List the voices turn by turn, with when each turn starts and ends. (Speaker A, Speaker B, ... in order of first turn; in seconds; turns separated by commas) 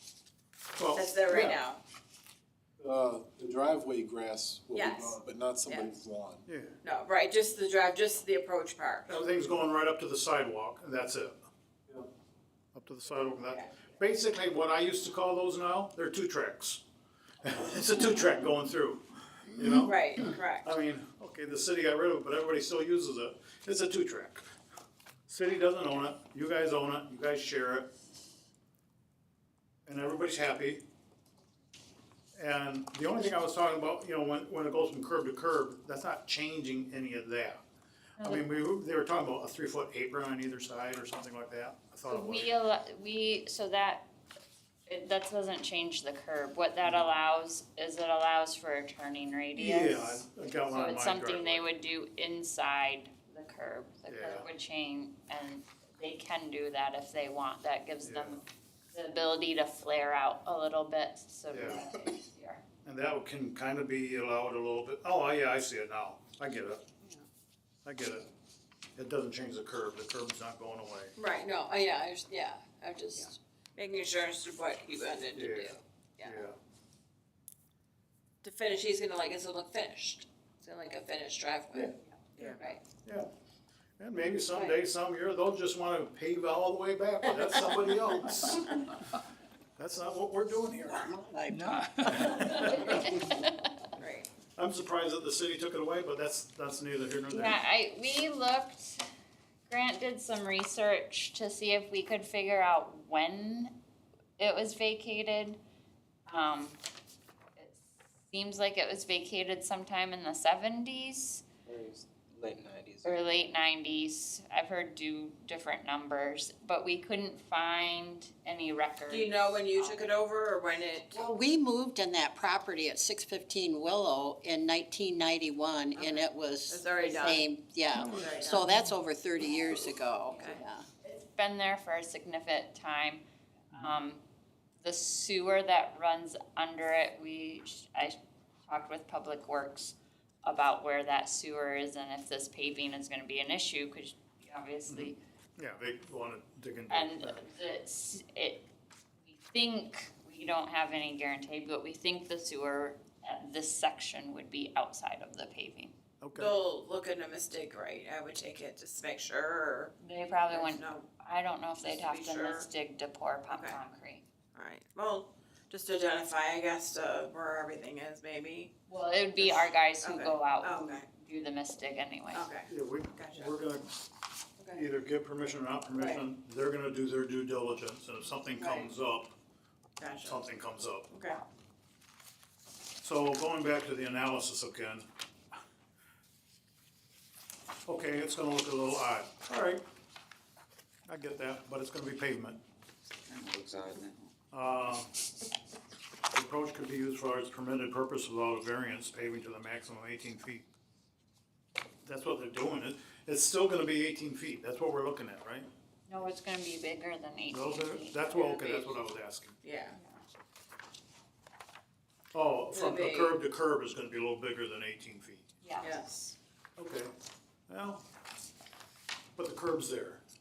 Speaker A: 0.8-1.6, Speaker B: 0.9-1.8, Speaker C: 2.8-6.5, Speaker B: 4.7-6.0, Speaker A: 6.5-6.8, Speaker B: 6.8-9.1, Speaker A: 9.1-11.4, Speaker A: 12.7-16.8, Speaker A: 17.4-24.4, Speaker B: 19.8-20.7, Speaker A: 25.3-27.9, Speaker A: 29.9-30.8, Speaker A: 32.3-37.6, Speaker D: 38.2-38.5, Speaker A: 38.2-42.5, Speaker D: 42.1-44.0, Speaker D: 44.9-62.6, Speaker A: 46.8-47.1, Speaker A: 49.5-51.7, Speaker A: 54.1-54.5, Speaker A: 58.0-58.4, Speaker A: 61.5-61.8, Speaker A: 62.8-66.8, Speaker A: 67.8-68.3, Speaker A: 69.0-71.1, Speaker B: 71.2-76.4, Speaker A: 75.3-76.5, Speaker B: 78.4-82.8, Speaker A: 82.8-83.3, Speaker A: 84.0-88.8, Speaker A: 89.8-91.1, Speaker E: 91.1-91.6, Speaker F: 91.5-92.0, Speaker A: 92.1-93.2, Speaker D: 92.1-93.7, Speaker B: 94.0-94.3, Speaker A: 94.5-97.6, Speaker D: 97.3-99.1, Speaker D: 99.7-103.8, Speaker D: 104.4-105.6, Speaker D: 106.3-106.8, Speaker D: 107.5-111.4, Speaker F: 111.7-113.0, Speaker D: 113.0-120.1, Speaker B: 119.1-121.2, Speaker E: 121.1-130.8, Speaker B: 126.0-127.5, Speaker B: 128.1-128.6, Speaker B: 130.3-130.6, Speaker D: 131.0-134.2, Speaker D: 134.8-145.2, Speaker A: 144.9-147.4, Speaker D: 146.9-148.7, Speaker D: 149.2-155.9, Speaker A: 156.2-156.6, Speaker B: 156.3-159.9, Speaker D: 160.0-164.2, Speaker B: 160.5-161.1, Speaker B: 161.8-162.7, Speaker B: 163.5-163.8, Speaker B: 164.5-168.7, Speaker D: 168.9-172.4, Speaker B: 169.4-171.1, Speaker B: 172.3-173.6, Speaker A: 172.7-173.9, Speaker B: 174.6-174.8, Speaker A: 174.7-179.3, Speaker B: 175.9-176.2, Speaker B: 178.5-178.9, Speaker B: 180.0-180.4, Speaker A: 180.2-181.1, Speaker B: 181.1-181.4, Speaker A: 183.0-185.1, Speaker A: 187.8-189.8, Speaker A: 191.1-192.6, Speaker F: 193.5-194.0, Speaker A: 194.5-195.1, Speaker A: 196.3-200.7, Speaker A: 202.0-205.7, Speaker D: 206.1-208.3, Speaker A: 207.5-209.6, Speaker B: 208.3-209.0, Speaker B: 209.6-210.0, Speaker D: 209.9-210.2, Speaker A: 212.3-215.5, Speaker B: 212.7-213.4, Speaker D: 215.6-216.0, Speaker B: 215.8-216.3, Speaker A: 216.8-217.1, Speaker A: 217.7-218.1, Speaker A: 219.4-220.2